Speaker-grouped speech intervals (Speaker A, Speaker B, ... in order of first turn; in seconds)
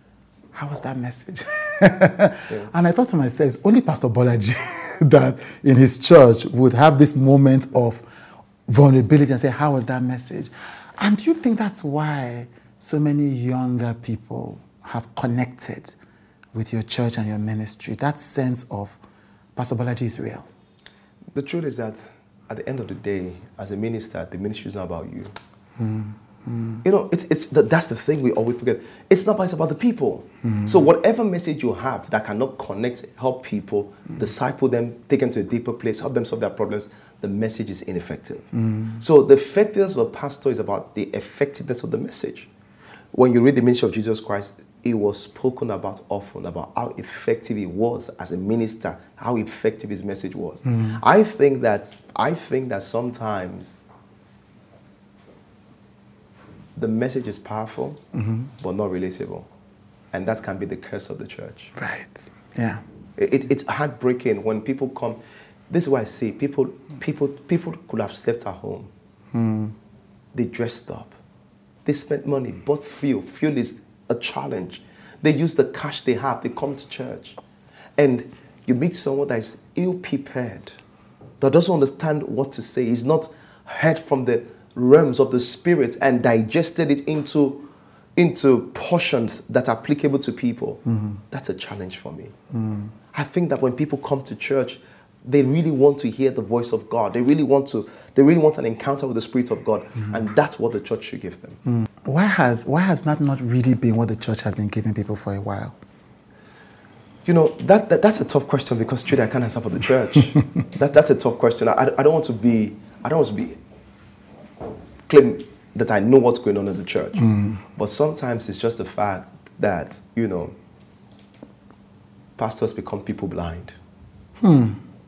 Speaker A: 0.5-8.1, 8.7-16.0, 16.5-19.0, 19.6-20.5, 25.8-26.8, 38.7-39.0, 58.2-58.5, 61.8-62.8, 69.3-69.7, 92.6-92.9, 102.0-105.8, 117.2-117.6, 124.4-124.8
Speaker B: 21.4-25.3, 26.8-42.5, 43.1-53.8, 56.8-58.0, 58.6-59.5, 60.1-61.7, 63.2-65.2, 65.7-68.9, 70.3-71.1, 71.8-77.4, 78.0-80.8, 81.4-87.6, 88.2-92.3, 93.1-101.6, 107.2-113.6, 115.1-120.5, 122.4-123.8